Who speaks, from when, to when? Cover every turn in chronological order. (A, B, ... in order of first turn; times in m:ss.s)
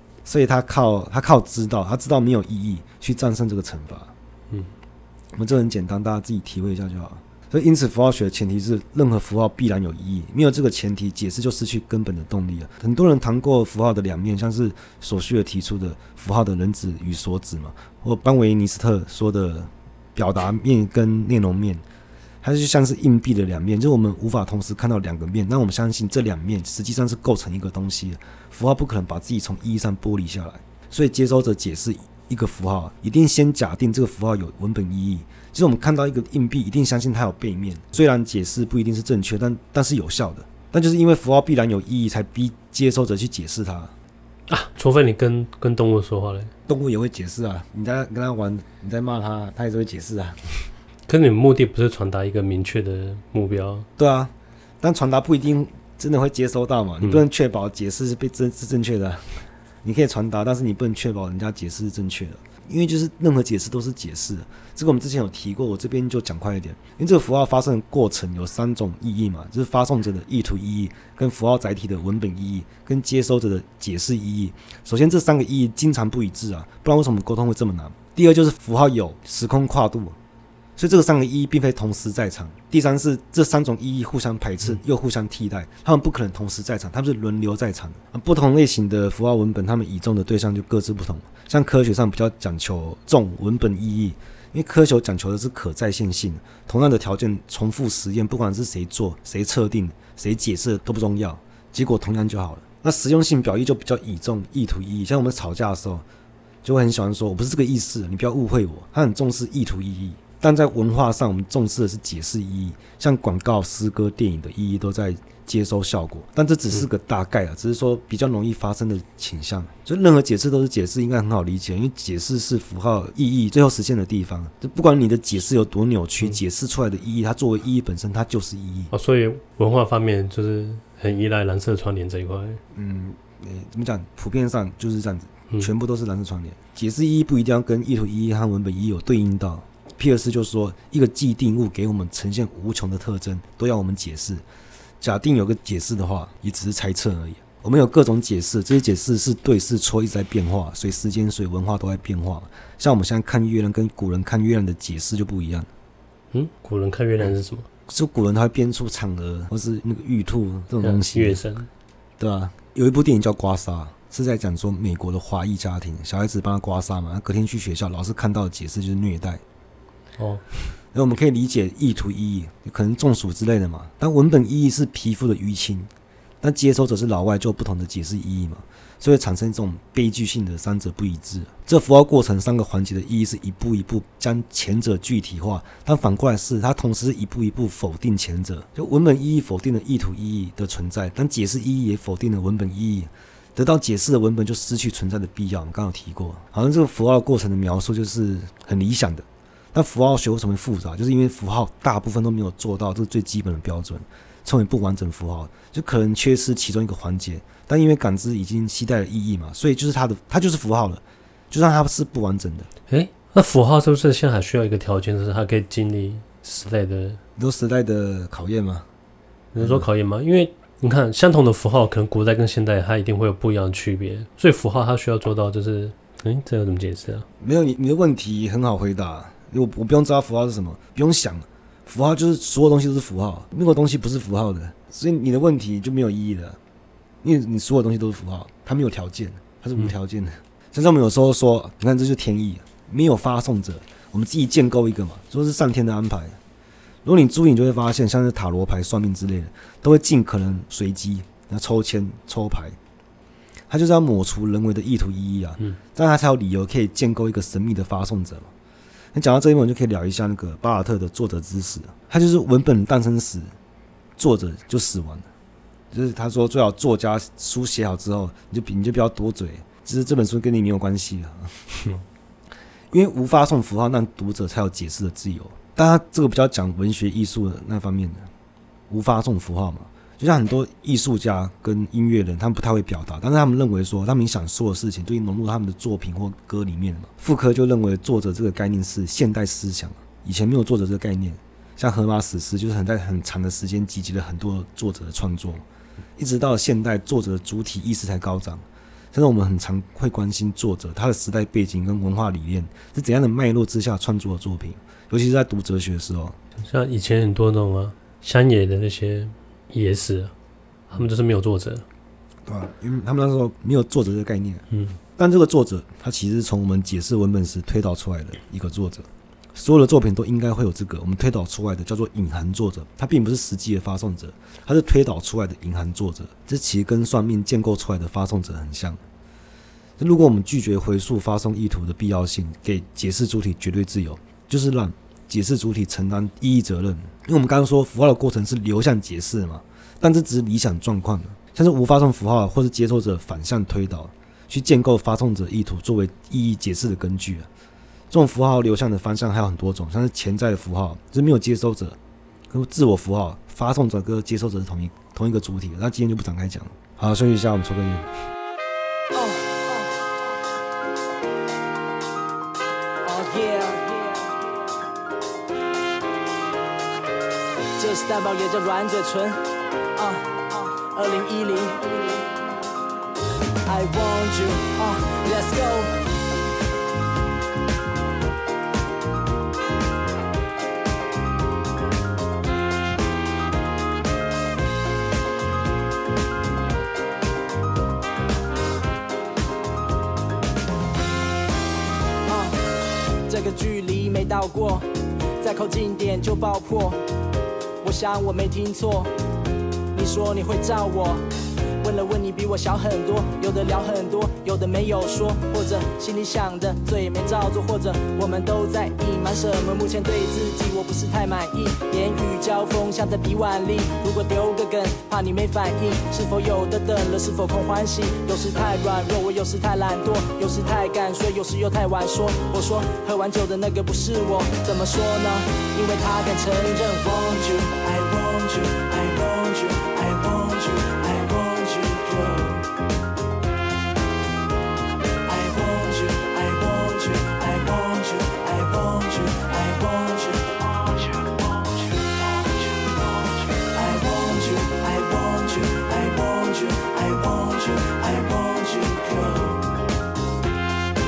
0:00.2-0:04.1 A
0:05.3-0:21.8 A
0:22.4-0:43.9 A
0:44.5-0:46.5 B
0:46.7-0:50.6 A
0:51.1-0:53.9 B
0:54.0-1:20.2 A
1:20.8-1:46.0 A
1:46.6-2:08.9 A
2:08.9-2:12.6 B
2:12.7-2:24.4 A
2:25.0-2:35.7 A
2:36.3-2:37.7 B
2:37.9-2:41.4 A
2:40.8-2:41.7 B
2:42.2-2:49.4 A
2:50.2-2:50.4 B
2:50.9-2:55.9 A
2:56.4-3:32.7 A
3:32.9-3:37.2 B
3:37.4-3:38.9 A
3:39.5-3:47.3 B
3:39.6-3:39.8 A
3:47.4-3:56.6 A
3:57.2-4:06.4 A
4:07.0-4:12.8 A
4:13.7-4:18.5 A
4:19.1-4:23.5 A
4:24.2-4:25.3 A
4:25.9-4:31.9 A
4:32.9-4:38.3 A
4:38.9-4:55.6 A
4:56.2-5:06.4 A
5:06.6-5:10.3 B
5:10.9-5:11.8 B
5:12.5-5:14.6 A
5:14.7-5:15.0 B
5:15.2-5:29.0 A
5:30.0-5:47.5 A
5:48.1-5:52.0 A
5:52.5-5:58.1 A
5:59.1-6:00.0 C
6:03.0-6:04.4 C
6:07.8-6:09.4 C
6:09.9-6:12.3 C
6:13.6-6:16.0 C
6:32.3-6:32.6 C
6:33.3-6:37.0 C
6:37.8-6:39.1 C
6:39.9-6:41.2 C
6:41.8-7:12.7 C
7:15.3-7:21.4 C
7:23.6-7:29.6 C